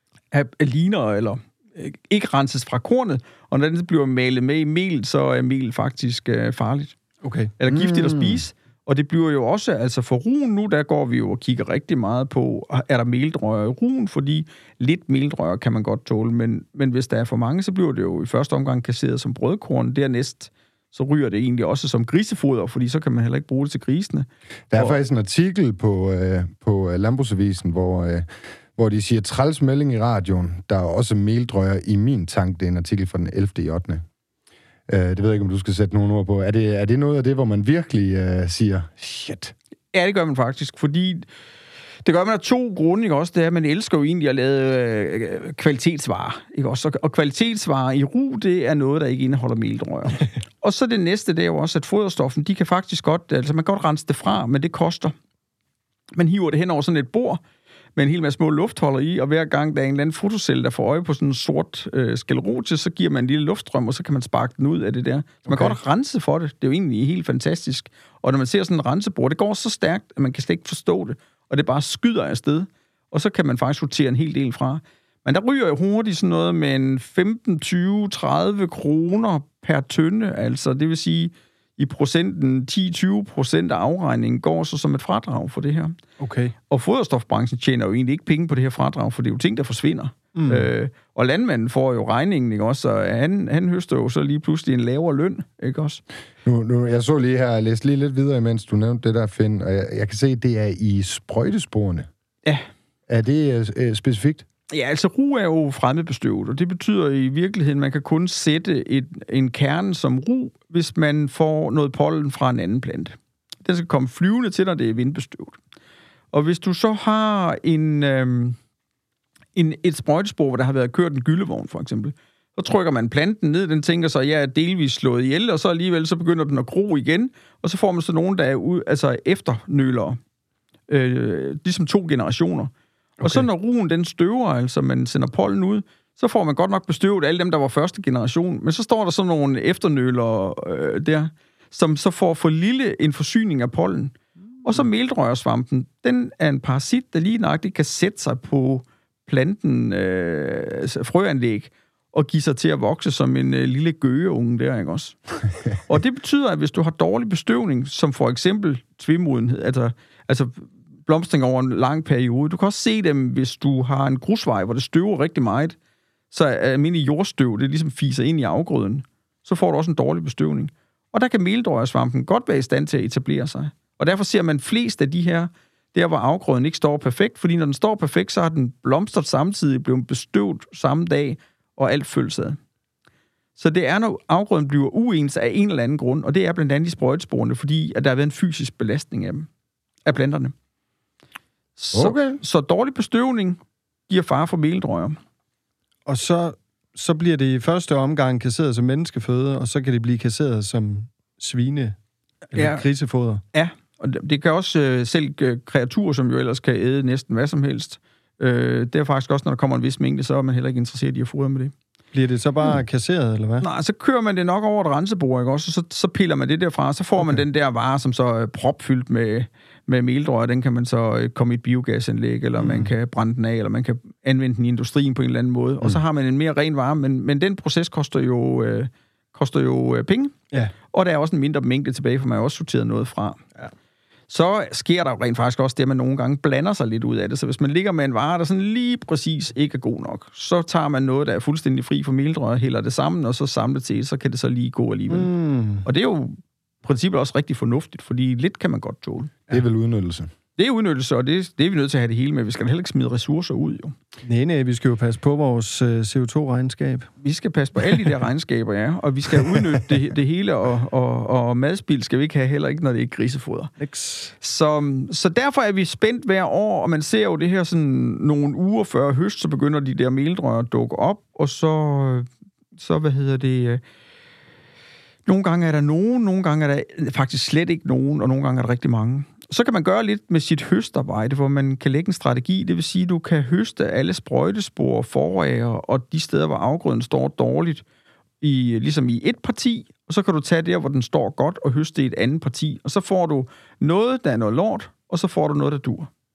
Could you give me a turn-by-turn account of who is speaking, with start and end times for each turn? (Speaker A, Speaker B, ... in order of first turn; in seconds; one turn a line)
Speaker A: 0.3-7.0
Speaker B: 7.2-7.5
Speaker A: 7.6-25.0
Speaker C: 7.7-8.4
Speaker C: 24.7-34.0
Speaker C: 34.9-39.5
Speaker A: 39.9-41.2
Speaker A: 42.0-55.1
Speaker A: 56.1-57.4
Speaker A: 58.0-86.0
Speaker B: 65.5-65.8
Speaker B: 86.2-86.5
Speaker A: 86.7-96.0
Speaker B: 90.3-90.7
Speaker C: 96.4-102.1
Speaker C: 103.1-104.4
Speaker A: 104.7-115.6
Speaker A: 116.3-118.6
Speaker A: 119.5-130.2
Speaker A: 130.9-155.2
Speaker B: 133.2-133.4
Speaker A: 155.9-165.8
Speaker A: 166.3-182.6
Speaker A: 183.6-189.5
Speaker A: 190.1-190.5
Speaker A: 191.8-195.2
Speaker C: 191.9-192.4
Speaker B: 196.1-201.9
Speaker B: 202.5-203.4
Speaker A: 202.5-202.8
Speaker A: 203.5-211.7
Speaker B: 212.1-213.7
Speaker A: 213.6-233.4
Speaker B: 222.6-222.9
Speaker A: 234.3-245.3
Speaker B: 245.1-245.9
Speaker A: 245.8-249.3
Speaker C: 249.5-250.3
Speaker A: 250.6-253.9
Speaker B: 254.2-257.1
Speaker A: 257.2-263.7
Speaker B: 263.8-264.3
Speaker A: 264.4-273.8
Speaker A: 275.2-287.8
Speaker A: 288.4-296.1